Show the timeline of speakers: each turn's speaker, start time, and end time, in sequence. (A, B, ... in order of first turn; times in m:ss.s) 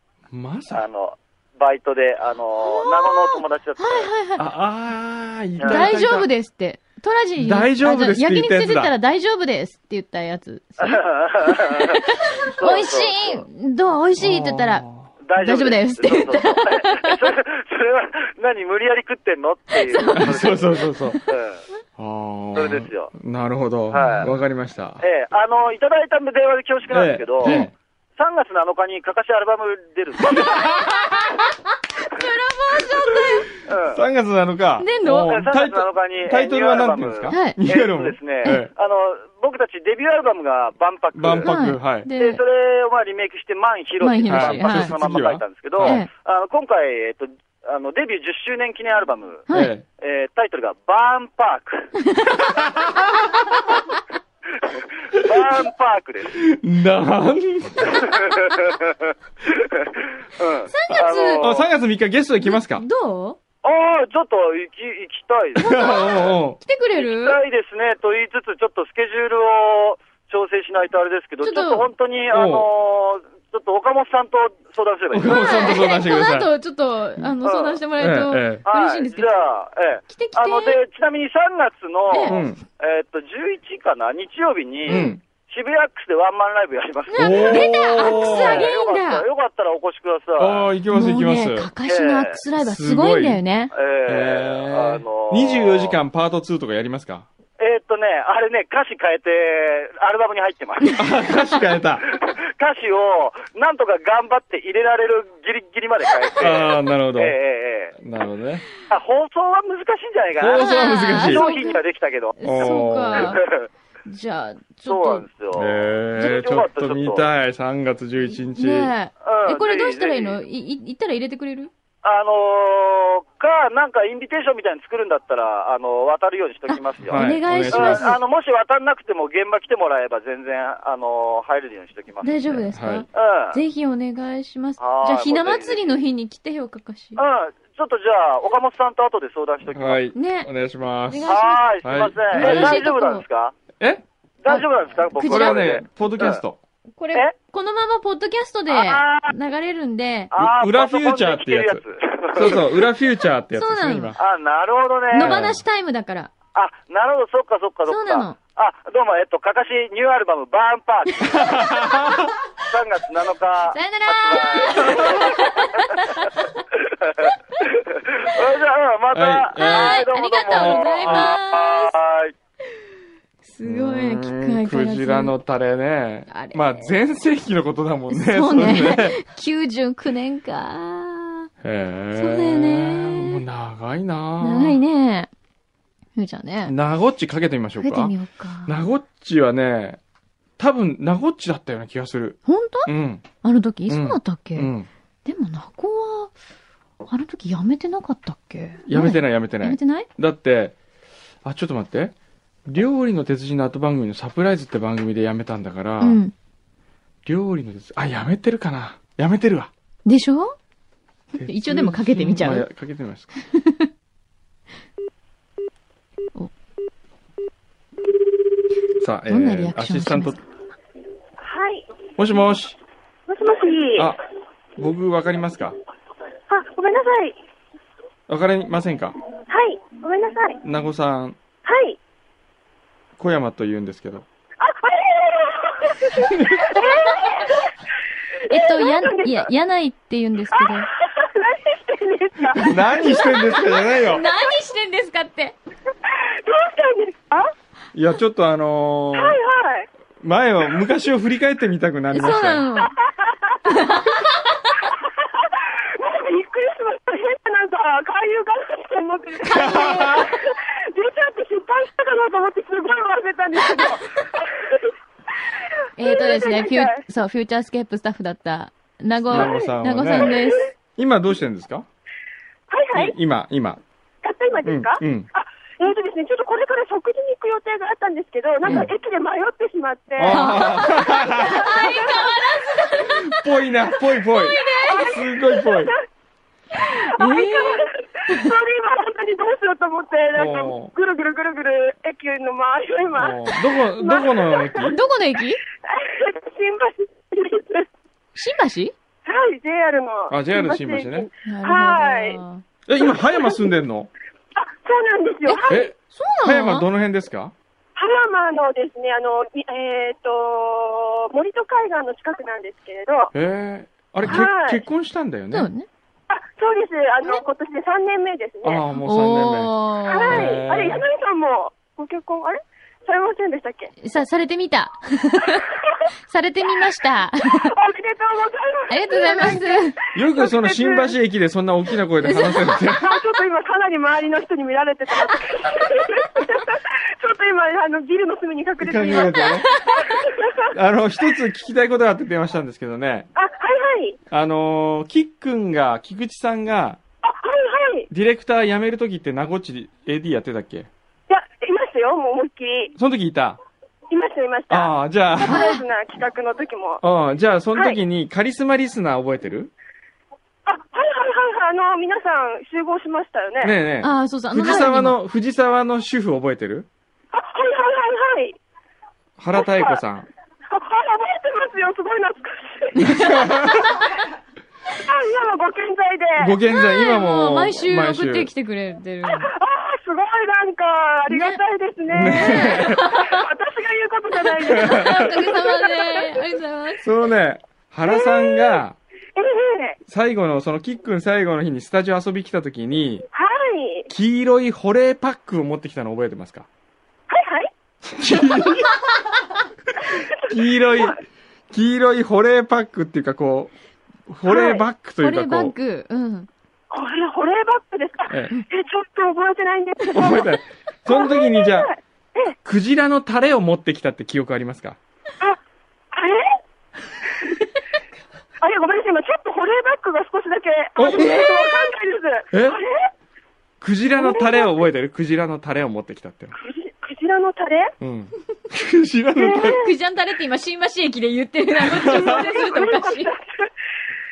0:00.3-0:00.8 A
0:00.7-0:04.1 B
0:02.6-0:04.4 C
0:04.4-0:06.3 A
0:05.6-0:05.9 B
0:05.6-0:14.8 C
0:07.4-0:08.9 A
0:10.8-0:13.4 B
0:14.2-0:15.1 A
0:15.2-0:21.6 B
0:15.4-0:17.2 C
0:19.7-0:21.3 C
0:20.2-0:21.2 A
0:22.0-0:25.0 A
0:22.5-0:23.1 B
0:23.9-0:24.3 B
0:23.9-0:24.3 C
0:25.0-0:27.6 B
0:26.9-0:27.7 A
0:27.4-0:27.7 C
0:28.2-0:30.8 B
0:30.4-0:30.9 A
0:30.6-0:33.5 C
0:33.6-0:34.0 B
0:33.9-0:38.7 A
0:34.8-0:35.3 C
0:35.1-0:41.5 B
0:37.3-0:37.6 C
0:41.1-0:42.1 A
0:41.4-0:42.4 C
0:42.2-0:49.5 B
0:44.0-0:44.9 C
0:44.3-0:46.0 A
0:45.8-0:46.1 C
0:49.5-0:49.7 C
0:49.5-0:49.8 A
0:50.0-0:51.9 B
0:52.6-0:53.0 A
0:54.6-0:56.4 B
0:56.3-0:58.1 A
0:57.8-1:01.7 B
1:00.7-1:01.4 C
1:01.4-1:02.8 A
1:02.4-1:03.4 C
1:03.6-1:06.2 B
1:05.6-1:06.6 A
1:05.6-1:07.4 C
1:07.0-1:15.8 B
1:11.4-1:11.9 C
1:12.3-1:12.7 A
1:15.1-1:16.5 A
1:15.3-1:19.3 C
1:17.4-1:17.8 B
1:18.0-1:18.6 A
1:18.6-1:30.7 B
1:20.1-1:20.8 C
1:22.1-1:22.4 C
1:22.2-1:22.6 A
1:24.9-1:25.2 A
1:24.9-1:25.2 C
1:27.1-1:29.2 C
1:27.2-1:28.7 A
1:30.4-1:31.7 A
1:30.9-1:33.7 C
1:31.8-1:32.4 B
1:32.6-1:33.4 A
1:33.7-1:36.0 B
1:34.0-1:37.3 A
1:37.6-1:41.0 B
1:41.0-1:42.1 A
1:42.1-1:47.9 B
1:46.4-1:47.4 A
1:48.0-1:48.6 A
1:48.9-1:53.7 B
1:50.4-1:51.4 A
1:50.6-1:51.8 C
1:52.4-1:53.4 C
1:52.4-1:53.4 A
1:54.0-1:55.3 C
1:54.8-1:57.3 B
1:55.5-1:58.9 A
1:58.2-2:01.7 C
1:59.2-2:00.4 B
2:02.0-2:12.4 B
2:06.7-2:08.2 C
2:07.0-2:08.2 A
2:12.2-2:17.2 C
2:12.5-2:13.0 A
2:13.1-2:13.6 B
2:14.8-2:16.0 B
2:17.2-2:20.0 B
2:19.7-2:22.8 A
2:20.1-2:20.5 C
2:21.1-2:21.6 C
2:21.2-2:23.5 B
2:22.3-2:23.2 C
2:23.8-2:24.0 A
2:24.4-2:26.4 B
2:24.5-2:25.8 C
2:25.2-2:26.6 A
2:27.0-2:30.3 C
2:28.7-2:29.3 B
2:30.3-2:32.8 B
2:30.3-2:31.8 A
2:32.3-2:34.2 A
2:33.5-2:34.1 C
2:34.2-2:35.6 B
2:35.1-2:36.3 C
2:35.2-2:35.6 A
2:36.5-2:41.6 B
2:37.9-2:38.4 C
2:41.2-2:42.3 A
2:42.6-2:45.9 B
2:43.7-2:46.6 C
2:44.8-2:45.2 A
2:46.8-2:52.3 B
2:49.1-2:51.3 A
2:49.6-2:51.9 C
2:53.4-2:55.3 C
2:53.6-2:59.2 A
2:56.3-2:56.9 C
2:58.1-3:01.5 C
3:01.6-3:04.8 A
3:02.1-3:03.4 C
3:04.4-3:05.3 C
3:06.2-3:06.7 C
3:06.6-3:08.1 A
3:07.8-3:08.8 C
3:08.6-3:10.0 A
3:10.6-3:13.2 A
3:12.4-3:14.7 C
3:13.9-3:14.9 A
3:15.2-3:16.3 C
3:17.0-3:20.1 C
3:18.8-3:20.7 A
3:21.4-3:22.1 A
3:22.7-3:26.2 A
3:26.0-3:26.3 C
3:27.2-3:29.7 A
3:30.0-3:30.6 C
3:31.3-3:33.3 A
3:31.4-3:32.7 C
3:33.4-3:33.9 C
3:39.0-3:40.4 A
3:39.3-3:40.4 C
3:41.4-3:41.9 D
3:42.2-3:42.8 A
3:43.3-3:44.1 D
3:44.8-3:45.8 A
3:46.5-3:47.4 D
3:48.3-3:49.2 A
3:49.5-3:50.6 D
3:50.6-3:51.4 A
3:51.6-3:52.0 D
3:53.2-3:54.2 A
3:54.6-3:57.7 D
3:56.4-3:56.6 A
3:58.4-3:59.4 D
3:58.5-4:00.9 C
4:00.6-4:04.0 D
4:02.6-4:04.2 A
4:04.0-4:05.5 C
4:06.0-4:07.5 D
4:07.9-4:09.4 A
4:09.1-4:09.9 D
4:10.2-4:12.6 A
4:12.1-4:12.9 C
4:12.8-4:14.1 D
4:13.7-4:14.7 C
4:14.8-4:24.9 D
4:19.5-4:20.3 A
4:19.5-4:19.9 C
4:26.0-4:30.7 C
4:26.0-4:27.0 D
4:29.3-4:30.4 A
4:29.3-4:30.5 D
4:31.0-4:31.9 A
4:32.7-4:33.2 D
4:32.9-4:33.8 A
4:34.2-4:43.1 D
4:34.6-4:35.3 A
4:38.6-4:38.9 A
4:40.2-4:41.9 A
4:40.2-4:43.2 C
4:42.9-4:45.9 A
4:44.2-4:46.0 D
4:44.5-4:44.9 C
4:46.9-4:48.5 C
4:46.9-4:54.9 D
4:50.3-4:50.9 A
4:53.1-4:55.0 A
4:54.8-4:55.6 C
4:55.8-4:57.9 D
4:58.3-4:58.9 C
4:59.2-5:02.4 D
5:00.3-5:01.3 A
5:01.4-5:02.6 C
5:02.8-5:04.1 A
5:03.0-5:03.6 D
5:04.6-5:05.9 D
5:05.4-5:06.9 C
5:05.7-5:07.5 A
5:08.0-5:13.3 D
5:13.3-5:15.7 A
5:14.2-5:14.8 D
5:15.5-5:15.9 C
5:16.3-5:18.9 D
5:18.6-5:21.0 A
5:18.9-5:20.5 C
5:20.1-5:23.9 D
5:24.0-5:25.7 C
5:26.2-5:27.7 C
5:27.7-5:31.1 D
5:28.9-5:30.0 C
5:30.1-5:33.2 A
5:32.2-5:32.7 C
5:32.4-5:40.7 D
5:38.8-5:39.7 A
5:40.7-5:43.3 A
5:43.4-5:44.2 D
5:44.3-5:47.0 A
5:47.2-5:48.1 D
5:48.1-5:50.9 A
5:51.3-5:52.9 D
5:53.0-5:53.6 A
5:54.1-5:57.0 D
5:54.7-5:55.7 A
5:55.4-5:55.8 C
5:57.0-5:59.7 A
6:00.6-6:03.8 D
6:03.6-6:06.9 A
6:04.0-6:05.2 C
6:07.3-6:08.6 D
6:09.4-6:10.3 A
6:09.5-6:10.0 D
6:10.7-6:13.9 D
6:13.0-6:13.3 C
6:13.0-6:14.0 A
6:14.9-6:16.6 D
6:16.4-6:18.5 A
6:16.7-6:19.5 C
6:19.3-6:26.4 D
6:21.3-6:21.6 C
6:22.1-6:23.0 A
6:22.2-6:23.4 C
6:24.7-6:25.3 A
6:24.7-6:27.1 C
6:27.0-6:29.0 A
6:28.0-6:28.8 D
6:29.3-6:30.0 D
6:30.1-6:33.2 A
6:33.3-6:34.1 D
6:34.1-6:36.7 A
6:37.3-6:37.7 D
6:38.1-6:39.0 A
6:40.0-6:41.2 A
6:40.0-6:41.2 D
6:41.7-6:43.7 A
6:44.3-6:45.7 A
6:44.5-6:46.5 C
6:44.5-6:44.8 D
6:46.9-6:50.5 D
6:50.1-6:51.9 A
6:51.1-6:52.5 D
6:52.6-6:55.0 A
6:56.1-6:56.6 D
6:58.6-7:03.1 D
7:01.0-7:01.4 A
7:01.0-7:01.5 C
7:02.5-7:02.8 A
7:03.8-7:06.6 A
7:04.2-7:04.7 D
7:06.5-7:07.9 D
7:08.0-7:09.8 A
7:09.4-7:09.9 D
7:09.5-7:13.3 C
7:11.8-7:12.5 A
7:12.2-7:13.7 D